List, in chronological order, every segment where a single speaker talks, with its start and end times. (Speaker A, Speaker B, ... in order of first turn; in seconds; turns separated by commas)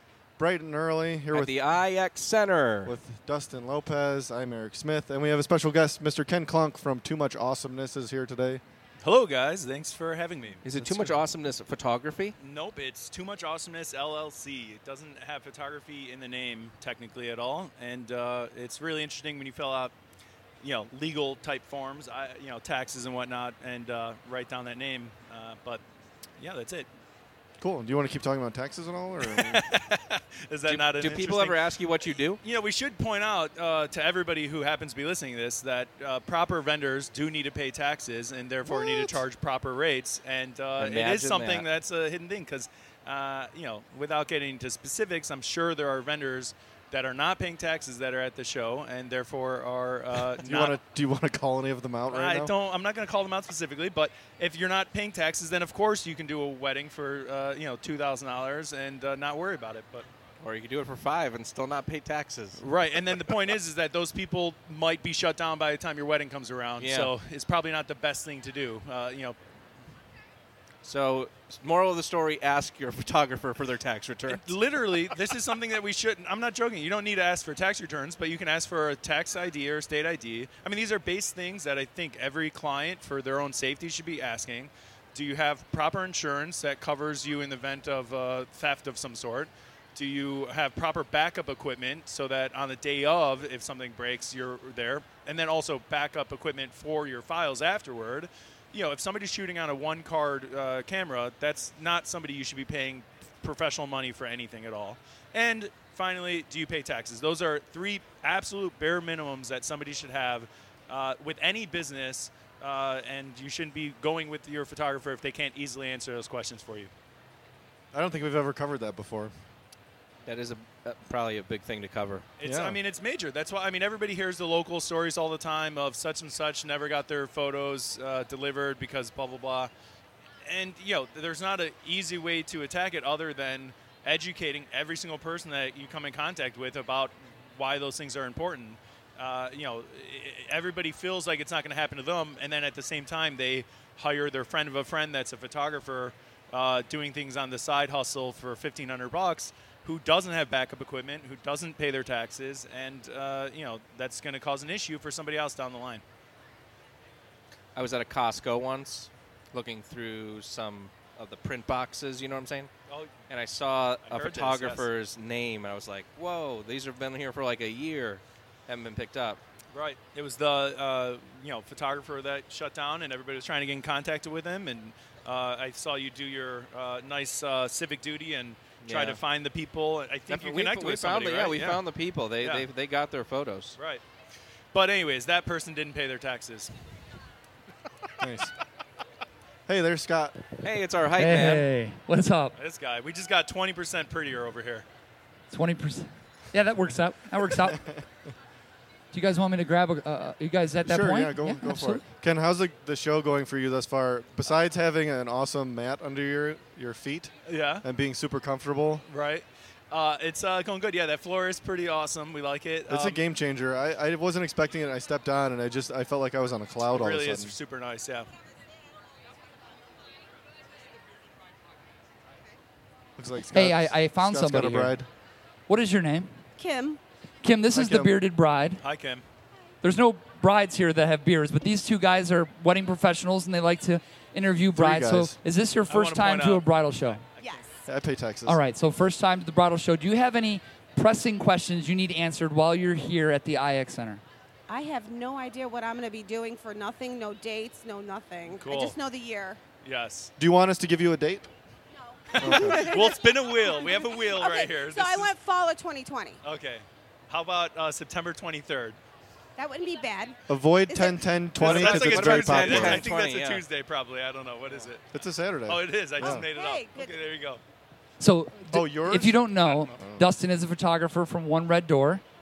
Speaker A: 0.4-1.6, Speaker B: 1.3-3.0, Speaker A: 2.9-8.6, Speaker C: 9.0-11.2, Speaker B: 10.7-12.3, Speaker C: 12.4-19.9, Speaker C: 20.6-25.8, Speaker C: 26.4-26.9, Speaker A: 27.6-29.6, Speaker C: 29.3-31.6, Speaker B: 30.7-32.4, Speaker C: 32.4-50.8, Speaker D: 38.7-39.2, Speaker B: 40.8-41.7, Speaker A: 50.4-52.5, Speaker C: 52.1-60.1, Speaker B: 60.4-62.6, Speaker C: 62.6-69.4, Speaker B: 66.8-67.1, Speaker B: 70.8-74.4, Speaker C: 74.3-116.9, Speaker A: 117.9-119.3, Speaker B: 120.2-122.3, Speaker C: 122.4-129.7, Speaker A: 122.4-122.8, Speaker C: 130.4-156.0, Speaker B: 157.8-162.7, Speaker C: 162.9-163.2, Speaker B: 163.3-169.4, Speaker C: 164.1-164.9, Speaker C: 169.7-181.8, Speaker B: 178.8-179.2, Speaker B: 180.3-183.8, Speaker C: 182.4-182.7, Speaker C: 183.8-184.0, Speaker C: 184.7-186.7, Speaker A: 188.2-188.5, Speaker A: 189.7-190.4, Speaker B: 190.6-191.7, Speaker E: 191.2-192.6, Speaker C: 192.6-194.9, Speaker E: 195.5-197.8, Speaker A: 197.6-198.0, Speaker E: 199.1-202.0, Speaker A: 200.9-209.1, Speaker C: 207.5-207.8, Speaker C: 209.1-213.2, Speaker A: 212.9-217.5, Speaker C: 216.9-218.3, Speaker A: 223.2-225.1, Speaker E: 223.5-225.0, Speaker E: 225.7-226.3, Speaker D: 226.6-227.0, Speaker E: 227.4-228.8, Speaker A: 227.7-228.1, Speaker C: 228.8-229.2, Speaker E: 229.8-237.2, Speaker A: 234.7-235.4, Speaker C: 235.9-237.6, Speaker D: 237.4-237.8, Speaker A: 237.9-238.6, Speaker E: 238.5-244.2, Speaker D: 244.7-249.6, Speaker C: 248.5-249.0, Speaker C: 249.8-250.3, Speaker A: 250.4-251.5, Speaker D: 252.3-256.4, Speaker C: 252.3-255.3, Speaker A: 252.4-252.9, Speaker C: 256.4-259.0, Speaker D: 259.6-261.3, Speaker A: 260.5-263.1, Speaker C: 261.6-265.1, Speaker B: 261.6-263.6, Speaker A: 265.1-266.5, Speaker C: 265.7-267.6, Speaker D: 266.2-267.2, Speaker E: 268.2-272.2, Speaker A: 268.7-270.3